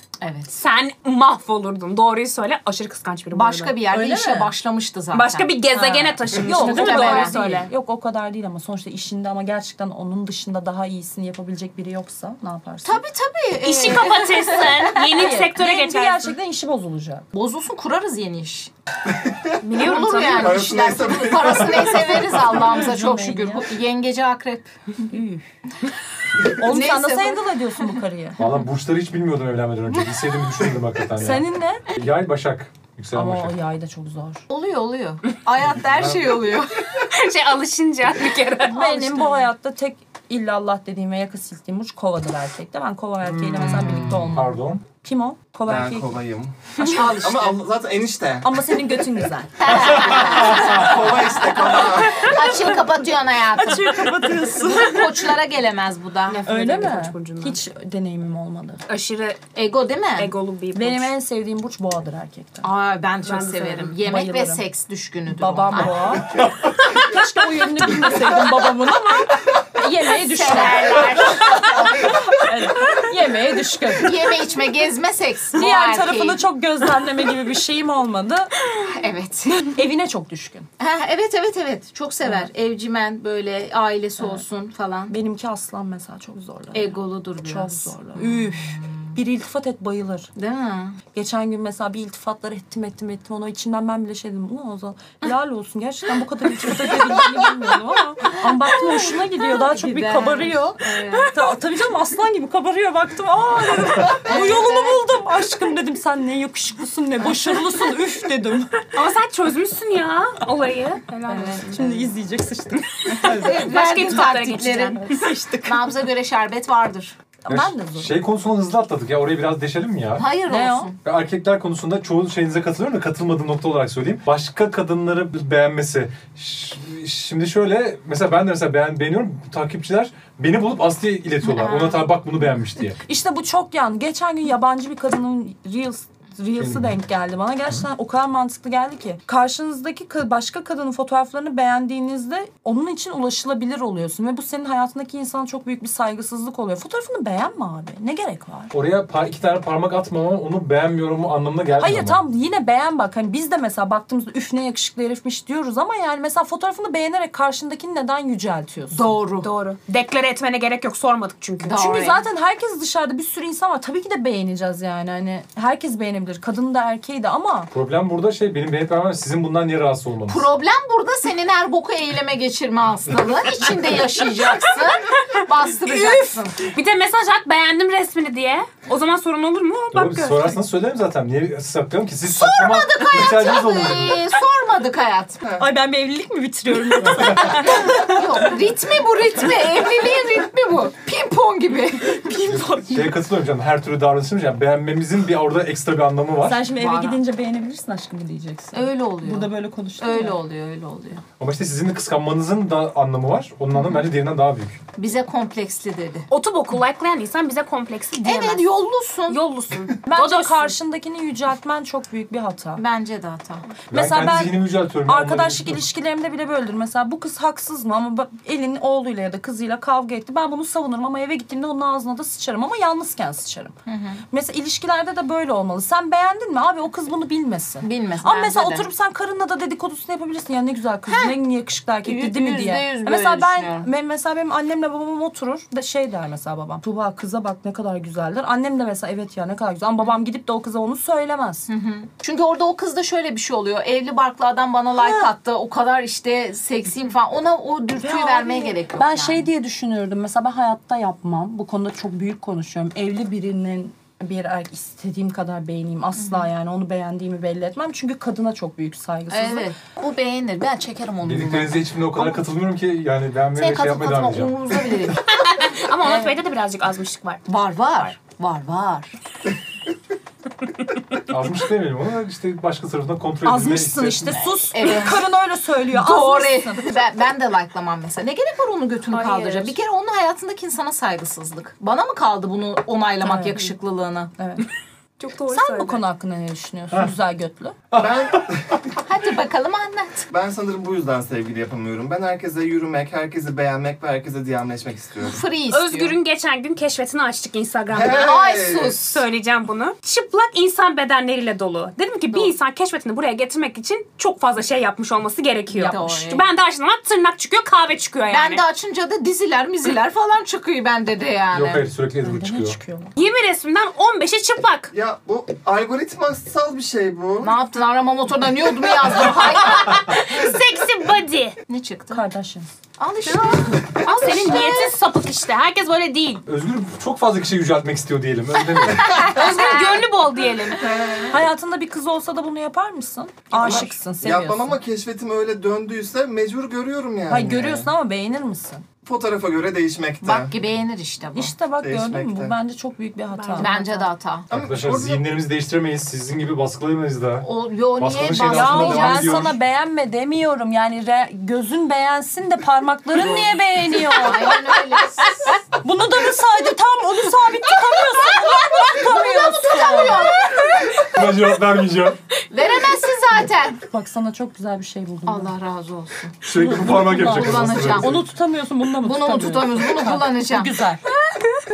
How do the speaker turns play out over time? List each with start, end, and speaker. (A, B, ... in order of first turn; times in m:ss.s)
0:00.2-0:00.6 A
0:00.6-0:03.8 B
0:03.3-0:05.8 A
0:03.9-0:04.5 C
0:05.1-0:07.7 B
0:05.7-0:13.0 C
0:06.3-0:07.4 A
0:12.8-0:15.0 A
0:13.6-0:16.3 B
0:15.0-0:17.3 C
0:17.3-0:18.7 A
0:19.2-0:19.6 D
0:19.6-0:21.0 B
0:19.7-0:24.8 A
0:20.3-0:22.4 D
0:22.3-0:23.7 C
0:25.0-0:25.5 C
0:26.4-0:28.4 C
0:26.6-0:27.6 A
0:28.4-0:33.6 E
0:31.2-0:31.9 C
0:33.1-0:34.4 C
0:34.5-0:36.8 A
0:35.9-0:36.3 E
0:37.0-0:39.3 B
0:38.6-0:46.2 C
0:43.3-0:44.8 E
0:43.6-0:44.2 A
0:45.7-0:48.5 D
0:46.8-0:47.6 A
0:48.4-0:50.2 C
0:49.6-0:56.4 A
0:50.0-0:52.4 D
0:53.5-0:55.1 C
0:56.3-0:57.6 B
0:56.5-0:58.8 C
0:58.9-0:59.4 B
0:59.5-1:00.3 A
1:00.2-1:01.1 B
1:00.7-1:02.7 C
1:02.6-1:06.2 A
1:03.2-1:03.9 B
1:03.9-1:04.6 C
1:05.3-1:14.3 C
1:10.2-1:11.7 A
1:10.4-1:12.1 B
1:14.0-1:16.4 A
1:15.5-1:18.5 C
1:18.8-1:19.7 A
1:19.6-1:20.7 C
1:20.8-1:25.2 A
1:22.2-1:22.5 C
1:25.1-1:30.3 C
1:26.7-1:29.2 A
1:30.4-1:31.0 A
1:31.1-1:48.9 C
1:38.3-1:41.4 A
1:44.1-1:45.0 A
1:48.9-1:51.9 B
1:51.3-1:52.0 A
1:51.7-1:53.7 C
1:53.1-1:57.2 A
1:53.2-1:55.2 B
1:55.1-1:55.9 C
1:57.4-1:58.2 C
1:57.5-2:00.3 E
2:00.2-2:01.0 A
2:00.5-2:00.9 C
2:01.0-2:13.0 E
2:11.4-2:12.1 A
2:13.0-2:28.7 C
2:16.6-2:16.9 E
2:28.7-2:32.2 E
2:31.8-2:39.2 C
2:38.9-2:39.5 A
2:39.4-2:41.8 B
2:41.6-2:42.2 A
2:41.7-2:47.7 C
2:47.7-2:50.5 E
2:50.3-2:56.6 A
2:56.0-3:00.6 B
2:59.9-3:04.2 E
3:02.2-3:05.4 A
3:05.6-3:08.4 C
3:07.4-3:12.4 A
3:12.1-3:13.2 C
3:12.4-3:16.6 E
3:16.4-3:20.4 C
3:16.8-3:17.2 A
3:18.7-3:21.2 A
3:21.4-3:24.8 E
3:25.0-3:26.3 A
3:26.3-3:28.7 B
3:28.2-3:29.4 A
3:29.3-3:30.7 B
3:30.1-3:32.8 C
3:32.8-3:33.7 A
3:33.9-3:35.8 E
3:33.9-3:43.8 C
3:43.9-3:44.2 A
3:44.3-4:01.7 C
3:47.8-3:48.9 A
3:51.1-3:51.4 A
3:52.0-3:53.9 A
4:01.7-4:09.5 A
4:05.0-4:05.3 C
4:08.0-4:19.7 C
4:19.3-4:22.4 A
4:21.2-4:24.5 E
4:23.6-4:25.2 A
4:25.3-4:27.5 B
4:26.0-4:26.4 A
4:27.5-4:29.2 A
4:31.3-4:34.4 E
4:33.4-4:36.9 C
4:34.7-4:35.2 A
4:35.9-4:44.3 A
4:39.1-4:39.8 B
4:43.2-4:43.7 C
4:44.4-4:44.7 C
4:45.2-4:46.0 B
4:45.5-4:47.8 C
4:47.9-4:48.5 E
4:48.0-4:48.8 D
4:49.0-4:50.3 A
4:50.3-4:55.4 D
4:55.2-4:56.2 A
4:55.7-4:58.3 B
4:57.9-4:59.0 D
4:58.0-4:59.2 A
4:59.0-5:08.6 B
5:05.7-5:06.5 A
5:08.3-5:11.9 A
5:11.5-5:12.8 E
5:12.2-5:13.2 C
5:13.2-5:14.9 B
5:14.9-5:17.5 D
5:17.4-5:20.3 A
5:19.7-5:21.6 B
5:21.7-5:22.2 A
5:22.1-5:22.7 C
5:23.0-5:25.0 A
5:23.2-5:26.4 B
5:26.5-5:29.4 E
5:29.1-5:30.9 B
5:29.3-5:29.8 A
5:31.3-5:34.8 C
5:33.6-5:37.9 D
5:37.3-5:38.9 C
5:39.0-5:40.6 D
5:40.2-5:41.6 A
5:41.3-5:43.8 C
5:41.8-5:42.5 D
5:43.3-5:44.1 B
5:43.6-5:44.5 A
5:44.5-5:45.2 D
5:44.5-5:47.5 E
5:47.4-5:49.5 A
5:48.0-5:49.6 E
5:48.4-5:54.6 C
5:53.2-5:55.6 A
5:55.8-6:00.5 C
5:58.5-6:00.9 A
6:01.0-6:02.2 E
6:02.5-6:03.8 A
6:03.7-6:05.5 C
6:05.3-6:06.4 A
6:06.4-6:08.2 E
6:06.5-6:11.0 C
6:07.0-6:08.2 A
6:09.0-6:10.8 A
6:11.3-6:11.6 B